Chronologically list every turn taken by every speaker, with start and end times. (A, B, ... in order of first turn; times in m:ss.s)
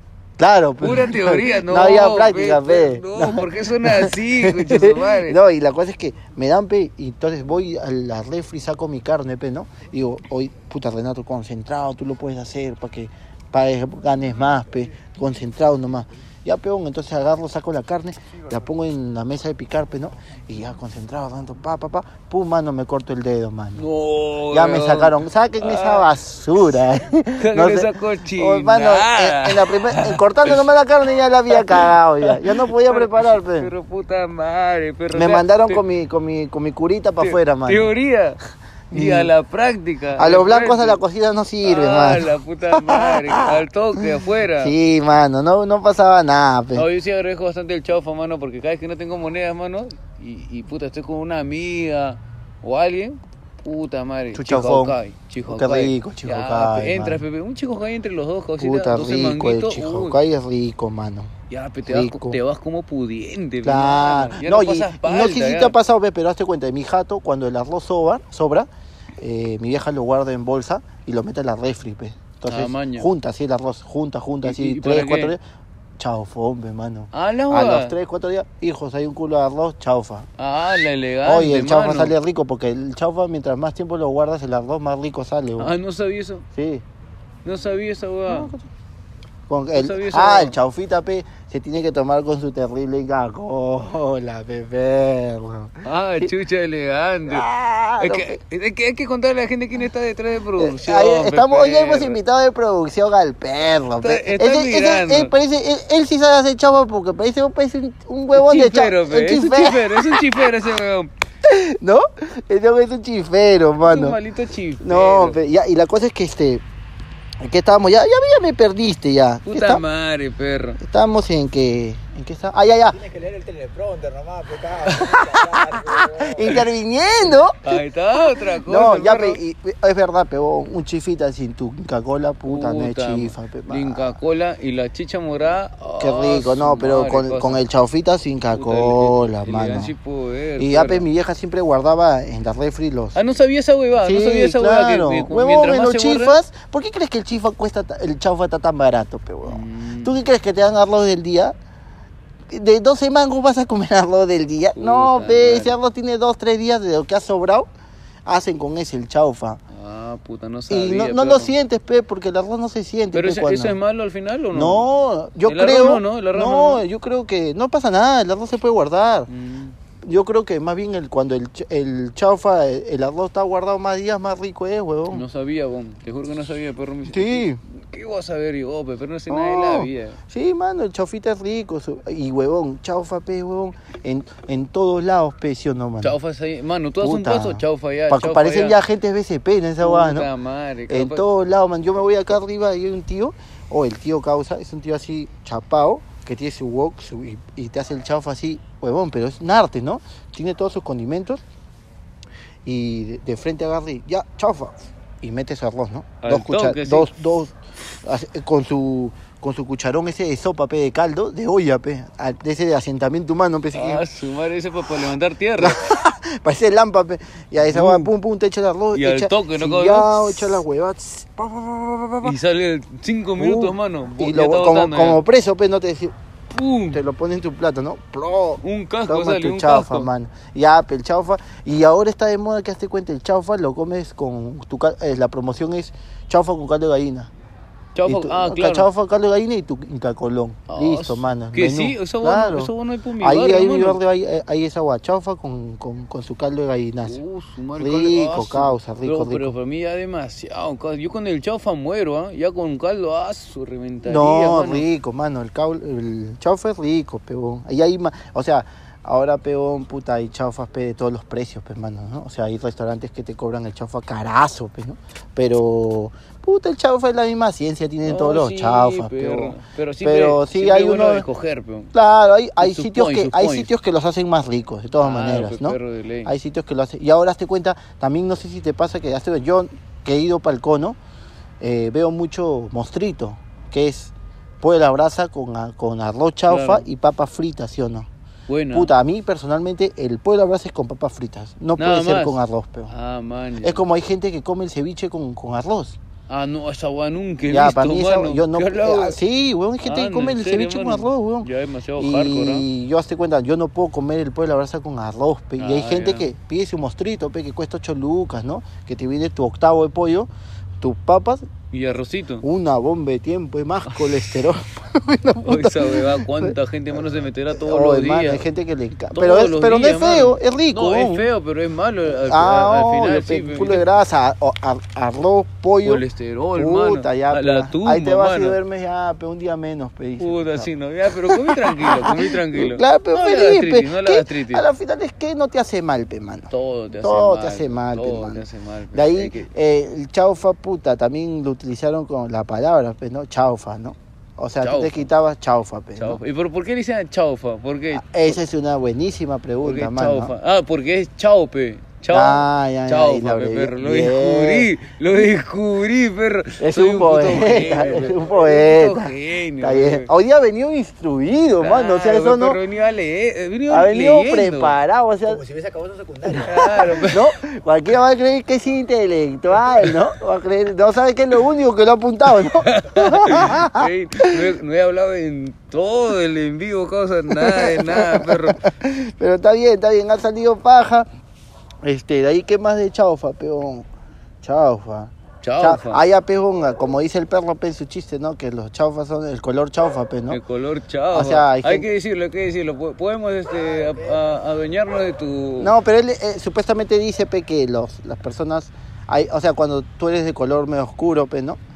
0:00.4-0:23.8 A
0:00.8-0:05.4 B
0:23.7-0:26.1 B
0:24.5-0:33.7 A
0:27.4-0:30.6 B
0:31.5-0:35.8 B
0:35.1-0:37.9 A
0:37.2-0:38.4 B
0:38.9-0:39.3 A
0:38.9-0:41.0 B
0:40.2-0:43.6 A
0:41.6-0:44.7 B
0:44.6-0:46.9 A
0:46.7-1:00.2 B
0:54.3-0:57.2 A
0:58.6-1:01.3 A
1:01.5-1:05.8 B
1:01.8-1:02.4 A
1:03.6-1:08.7 A
1:09.2-1:15.4 A
1:12.4-1:13.1 B
1:14.4-1:15.4 B
1:16.0-1:20.3 A
1:17.1-1:18.0 B
1:20.4-1:22.1 B
1:21.2-1:25.7 A
1:25.6-1:26.4 B
1:26.5-1:26.8 A
1:27.4-1:28.5 B
1:28.3-1:28.6 A
1:29.5-1:36.3 A
1:29.7-1:30.6 B
1:35.8-1:37.5 B
1:37.3-1:38.4 A
1:38.0-1:42.2 B
1:40.6-1:50.3 A
1:44.0-1:45.3 B
1:48.3-1:51.1 B
1:51.4-1:54.2 A
1:53.8-1:55.4 B
1:54.8-1:56.6 A
1:57.4-1:59.8 A
1:59.5-2:00.8 B
2:00.8-2:03.0 A
2:02.9-2:06.7 C
2:05.8-2:07.8 A
2:07.6-2:09.4 B
2:08.6-2:14.2 A
2:12.4-2:17.6 B
2:16.0-2:19.9 A
2:18.5-2:21.1 B
2:20.6-2:23.2 A
2:23.1-2:26.4 B
2:24.0-2:31.5 A
2:29.4-2:30.2 B
2:32.5-2:37.7 A
2:34.8-2:35.8 B
2:38.2-2:39.6 A
2:39.7-2:41.5 B
2:40.7-2:43.8 A
2:43.1-2:44.9 B
2:44.5-2:49.3 A
2:45.4-2:46.8 B
2:49.3-2:49.8 B
2:50.0-2:55.2 A
2:55.1-3:00.2 B
2:57.0-2:57.6 A
2:59.3-3:06.2 A
3:06.0-3:08.8 B
3:07.0-3:10.3 A
3:09.8-3:11.2 B
3:10.9-3:21.4 A
3:22.6-3:34.0 A
3:26.2-3:27.1 B
3:33.7-3:35.8 B
3:35.6-3:42.4 A
3:37.7-3:38.1 B
3:38.9-3:40.6 B
3:42.2-3:45.2 B
3:43.4-3:46.2 A
3:46.5-3:47.0 B
3:46.9-3:57.3 A
3:48.6-3:50.1 B
3:57.9-3:58.9 B
3:58.0-4:07.2 A
4:00.7-4:04.0 B
4:07.0-4:14.8 B
4:07.8-4:09.5 A
4:14.0-4:31.2 A
4:28.0-4:31.9 B
4:31.9-4:41.0 A
4:32.6-4:33.7 B
4:35.0-4:36.3 B
4:41.6-4:48.1 A
4:46.5-4:46.9 B
4:48.5-4:48.9 B
4:48.7-4:52.9 A
4:51.8-4:53.8 B
4:53.6-4:56.0 A
4:56.3-4:59.2 B
4:57.5-5:10.3 A
4:59.8-5:02.7 B
5:05.6-5:06.3 B
5:10.8-5:11.4 A
5:11.7-5:12.4 B
5:12.4-5:16.5 A
5:13.9-5:14.4 B
5:15.4-5:18.4 B
5:17.5-5:21.3 A
5:19.1-5:23.8 B
5:22.0-5:26.0 A
5:25.8-5:28.6 B
5:26.5-5:30.7 A
5:30.2-5:34.6 B
5:31.2-5:46.2 A
5:36.5-5:39.5 B
5:44.6-5:45.0 B
5:46.0-5:48.4 B
5:47.9-5:50.3 A
5:49.6-6:00.1 B
5:52.1-5:54.7 A
5:56.6-6:02.6 A
5:57.5-5:58.4 C
6:01.6-6:04.7 B
6:03.7-6:05.4 A
6:05.2-6:07.1 C
6:06.3-6:07.3 B
6:07.1-6:14.5 A
6:12.4-6:18.6 B
6:17.3-6:21.1 A
6:21.8-6:23.8 A
6:24.4-6:30.4 A
6:25.4-6:26.0 B
6:30.3-6:35.7 B
6:31.1-6:31.9 A
6:33.5-6:34.2 C
6:35.6-6:41.6 A